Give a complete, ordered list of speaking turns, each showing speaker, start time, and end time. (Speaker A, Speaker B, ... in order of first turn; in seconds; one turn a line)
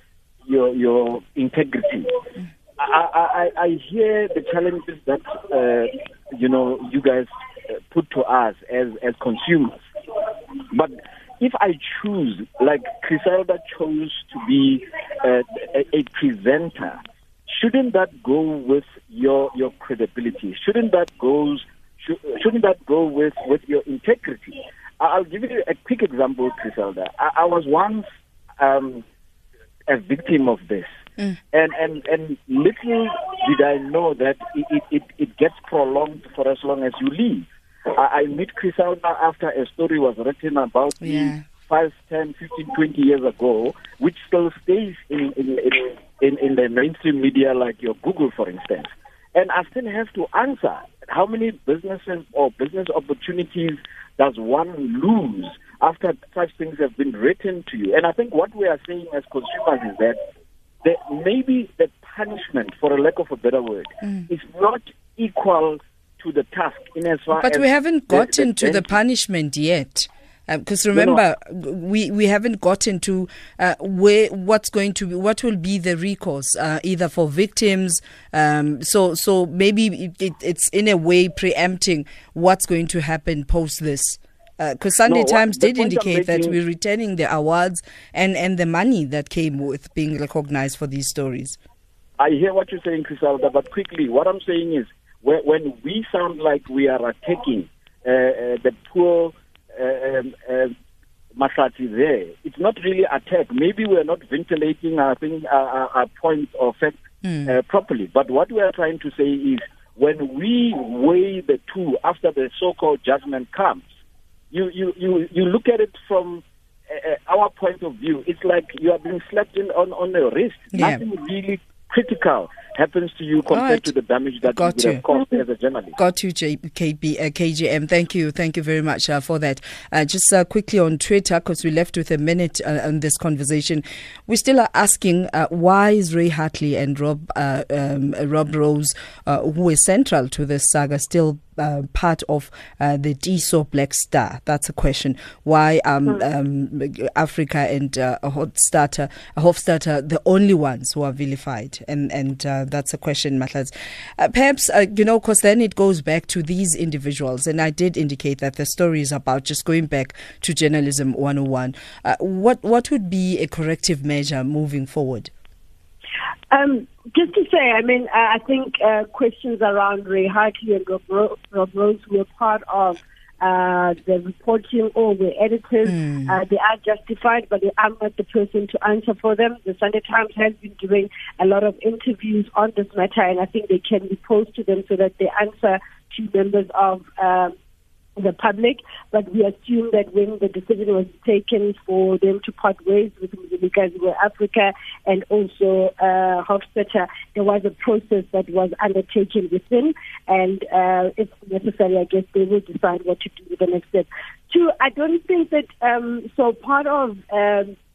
Speaker A: 0.4-2.1
Speaker A: 2.8-9.8
Speaker A: 10.7-28.1
Speaker A: 28.6-29.0
Speaker A: 29.9-30.9
Speaker A: 31.5-60.2
Speaker B: 41.0-41.5
Speaker A: 60.8-68.9
Speaker B: 67.3-91.6
Speaker A: 70.9-71.2
Speaker A: 85.1-86.6
Speaker A: 92.2-100.7
Speaker A: 101.4-113.8
Speaker B: 107.2-107.5
Speaker A: 114.5-126.0
Speaker B: 120.7-121.0
Speaker B: 123.5-123.9
Speaker B: 124.4-125.0
Speaker B: 126.0-165.3
Speaker C: 166.5-187.5
Speaker B: 175.8-176.3
Speaker C: 188.2-207.8